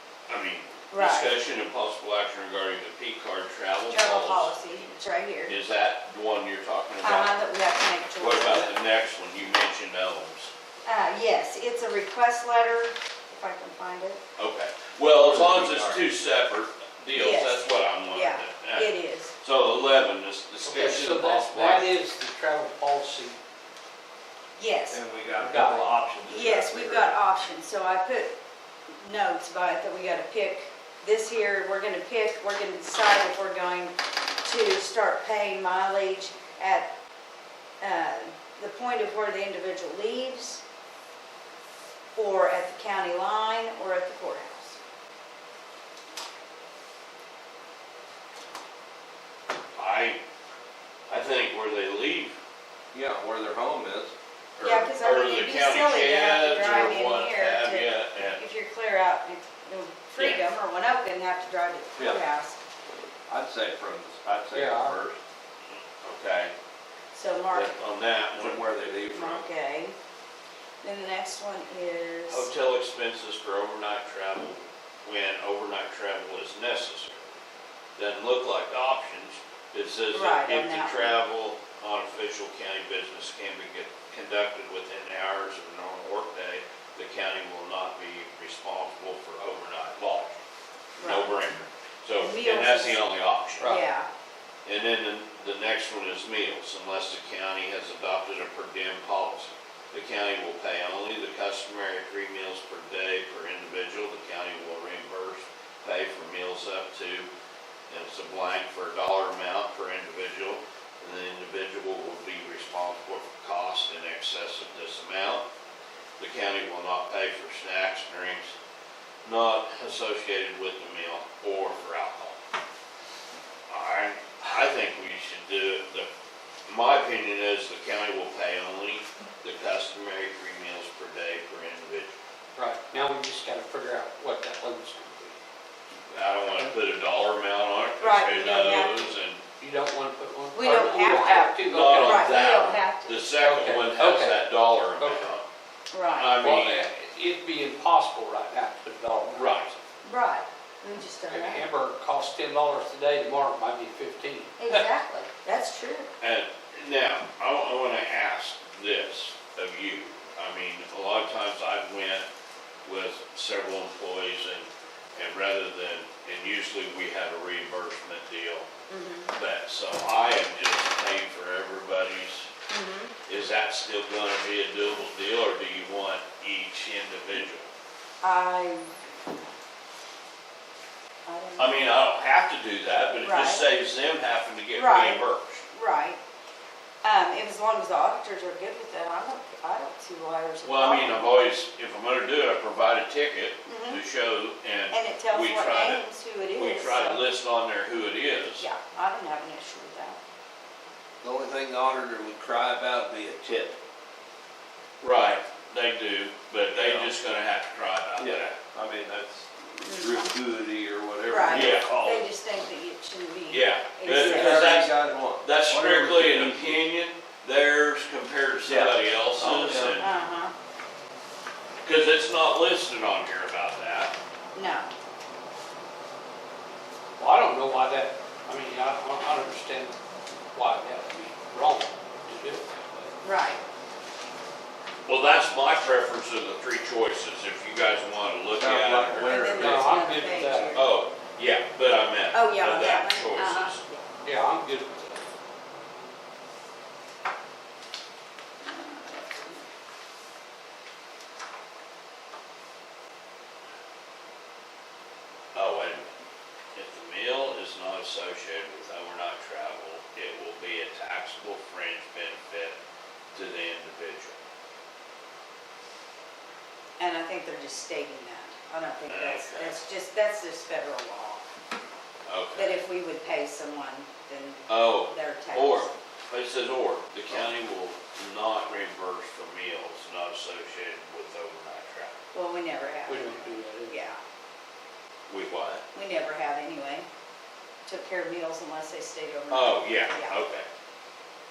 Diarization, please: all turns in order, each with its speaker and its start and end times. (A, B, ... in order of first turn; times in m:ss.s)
0:00.3-0:04.9 A
0:00.9-0:01.4 B
0:03.9-0:05.6 B
0:05.5-0:07.4 A
0:07.0-0:08.7 B
0:08.2-0:10.5 A
0:10.8-0:14.2 B
0:14.4-0:21.9 A
0:15.2-0:16.1 C
0:17.1-0:19.3 B
0:20.6-0:23.4 D
0:24.6-0:25.0 B
0:24.9-0:27.2 C
0:25.4-0:25.9 D
0:26.3-0:28.3 B
0:28.9-0:36.9 B
0:37.8-0:40.6 B
0:42.2-0:44.8 B
0:49.8-0:50.2 A
0:51.1-0:52.4 A
0:52.9-0:54.1 C
0:54.6-0:58.4 A
0:54.6-1:02.6 B
1:03.3-1:05.2 C
1:04.5-1:05.0 D
1:05.7-1:06.5 A
1:07.1-1:07.7 B
1:07.5-1:08.6 A
1:08.4-1:09.4 C
1:09.1-1:10.0 B
1:10.8-1:12.5 B
1:12.3-1:17.4 A
1:18.0-1:30.4 A
1:20.1-1:21.2 B
1:31.0-1:31.4 B
1:31.0-1:33.8 A
1:32.2-1:33.0 B
1:33.6-1:34.1 B
1:34.6-1:47.3 A
1:47.9-1:55.4 A
1:56.2-1:58.5 A
1:59.2-2:02.4 A
2:03.7-2:06.1 A
2:06.7-2:12.1 A
2:12.6-2:15.4 D
2:16.1-2:19.4 A
2:18.0-2:19.1 B
2:19.6-2:22.5 D
2:20.5-2:23.2 B
2:21.6-2:25.4 A
2:23.4-2:25.3 D
2:25.9-2:26.4 B
2:26.1-2:26.8 A
2:26.3-2:29.8 D
2:29.3-2:29.7 A
2:30.0-2:31.7 B
2:31.3-2:34.9 D
2:34.6-2:36.1 B
2:36.2-2:42.2 A
2:42.8-2:48.7 A
2:48.9-2:49.3 B
2:49.3-2:52.5 A
2:52.7-2:53.1 B
2:53.3-2:57.7 A
2:58.2-2:58.9 B
3:01.2-3:01.9 B
3:01.6-3:05.6 A
3:03.2-3:03.6 B
3:04.7-3:06.2 B
3:07.0-3:11.2 B
3:10.6-3:16.0 A
3:13.7-3:14.0 B
3:14.9-3:17.2 B
3:16.5-3:18.7 A
3:18.6-3:20.2 B
3:21.2-3:23.8 C
3:25.0-3:28.5 A
3:26.7-3:27.1 C
3:28.2-3:32.2 C
3:29.8-3:30.3 B
3:31.3-3:34.8 B
3:31.5-3:31.9 A
3:33.5-3:40.1 A
3:34.0-3:36.8 C
3:38.7-3:40.0 C
3:40.0-3:40.5 B
3:41.8-3:44.1 A
3:44.5-3:44.9 B
3:47.2-3:50.0 D
3:50.5-3:53.1 D
3:53.2-3:53.6 B
3:55.0-3:59.4 A
3:58.6-4:00.0 C
3:59.2-4:00.9 B
3:59.6-4:00.8 D
4:00.7-4:03.8 A
4:02.3-4:03.8 B
4:04.1-4:05.3 D
4:08.6-4:09.7 B
4:15.5-4:16.2 A
4:16.8-4:22.8 A
4:23.3-4:24.4 A
4:27.0-4:31.4 B
4:29.1-4:29.8 A
4:32.2-4:32.8 A
4:32.6-4:35.9 B
4:34.7-4:42.2 A
4:42.3-4:44.2 B
4:43.1-4:43.9 D
4:45.3-4:45.8 A
4:45.9-4:47.1 B
4:47.9-4:50.4 B
4:49.5-4:50.7 A